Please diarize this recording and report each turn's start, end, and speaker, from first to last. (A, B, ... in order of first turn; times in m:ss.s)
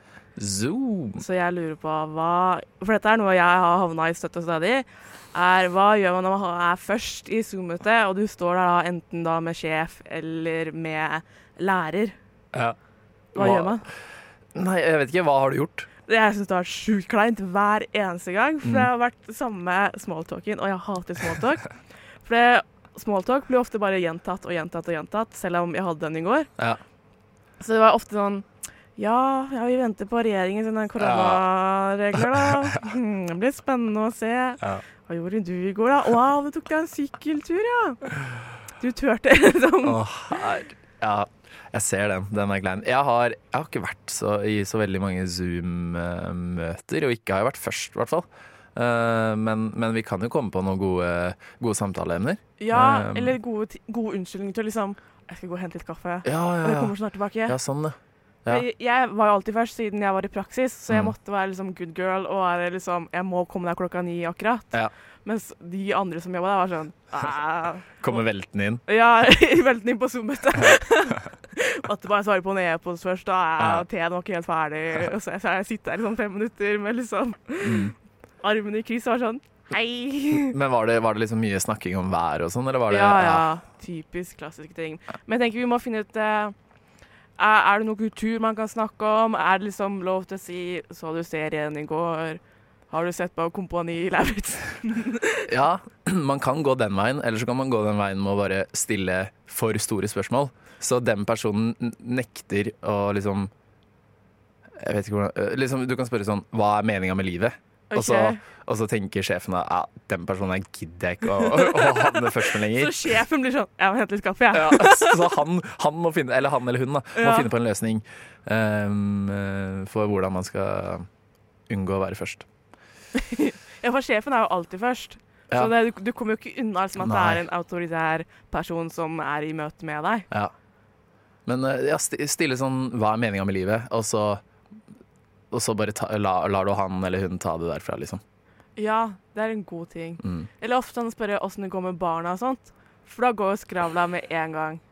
0:00.4-0:01.2 A
0:01.2-0:12.2 B
0:13.4-0:13.9 B
0:13.4-0:13.9 A
0:14.5-0:15.9 A
0:16.1-0:26.5 B
0:18.6-0:18.9 A
0:27.6-0:38.0 B
0:31.0-0:31.5 A
0:32.2-0:32.5 A
0:38.8-0:40.5 B
0:39.8-0:53.4 A
0:52.6-0:57.6 B
0:56.2-0:58.6 A
0:58.5-1:08.2 B
1:00.9-1:01.1 A
1:08.0-1:08.8 A
1:08.9-1:20.6 B
1:10.5-1:11.3 A
1:13.6-1:13.8 A
1:17.6-1:18.0 A
1:20.3-1:23.5 A
1:22.9-1:26.6 B
1:27.4-1:35.5 B
1:35.5-1:43.5 A
1:44.8-1:53.0 A
1:47.9-1:48.4 B
1:51.4-1:55.3 B
1:54.5-2:01.1 A
1:57.2-1:57.5 B
2:01.7-2:02.5 A
2:03.2-2:10.3 B
2:07.0-2:07.4 A
2:11.5-2:14.4 A
2:15.5-2:18.2 A
2:18.8-2:24.8 B
2:20.2-2:20.5 A